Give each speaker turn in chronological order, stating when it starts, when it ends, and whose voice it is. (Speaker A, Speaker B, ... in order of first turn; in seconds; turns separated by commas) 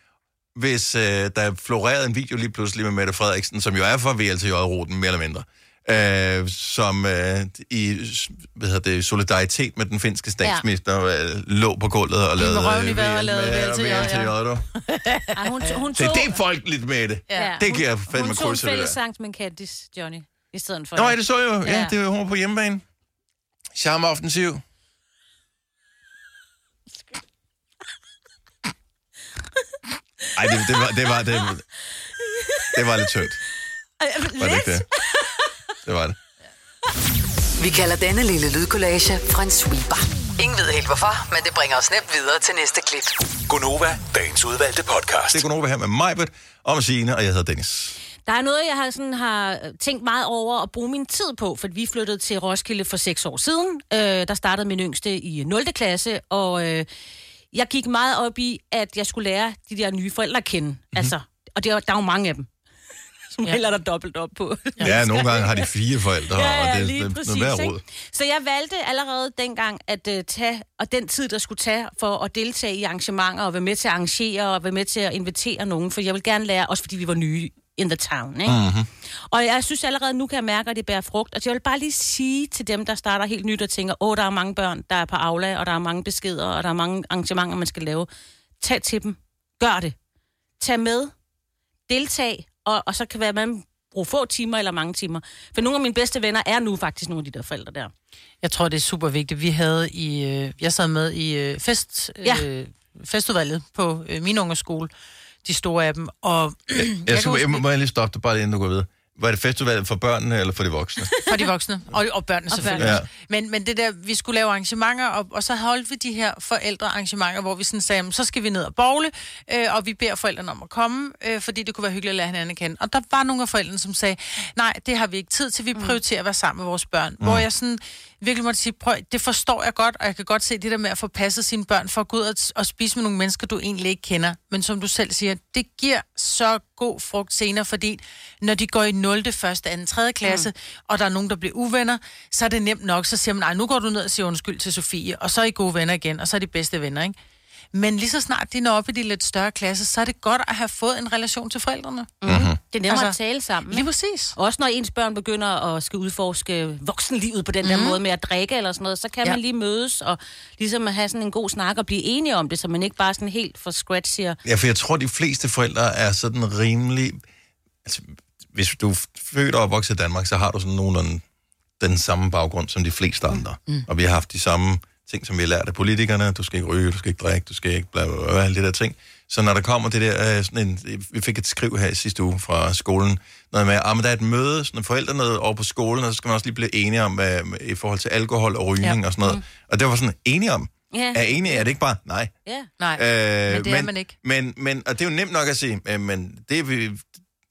Speaker A: 0.6-14.7, Speaker B: 12.4-15.7, Speaker C: 15.3-16.4, Speaker A: 15.9-19.0, Speaker B: 17.3-17.6, Speaker C: 17.4-21.9, Speaker A: 20.9-22.8, Speaker A: 23.8-24.6, Speaker A: 30.4-31.6, Speaker A: 32.7-33.4, Speaker C: 34.0-35.5, Speaker A: 34.4-34.9, Speaker A: 35.9-36.2, Speaker D: 37.6-43.1, Speaker E: 43.5-45.5, Speaker A: 45.3-48.0, Speaker C: 48.3-56.9, Speaker C: 57.5-62.5, Speaker C: 63.4-65.7, Speaker A: 64.8-67.8, Speaker C: 66.3-78.6, Speaker A: 78.5-78.9, Speaker C: 79.3-88.1, Speaker C: 88.6-90.0, Speaker C: 90.6-91.1, Speaker C: 91.9-97.9, Speaker B: 98.4-104.9, Speaker B: 105.4-107.6, Speaker A: 106.7-111.1, Speaker B: 111.3-147.2, Speaker C: 112.5-113.0, Speaker A: 112.8-113.1, Speaker B: 147.7-152.2, Speaker C: 152.2-164.4, Speaker A: 152.2-152.6, Speaker B: 152.9-153.2, Speaker B: 153.7-154.3, Speaker B: 157.6-158.0, Speaker A: 164.4-167.2, Speaker A: 167.8-171.2, Speaker A: 171.8-192.3, Speaker C: 188.8-189.4, Speaker C: 190.9-191.7, Speaker B: 192.8-194.2, Speaker A: 193.0-197.1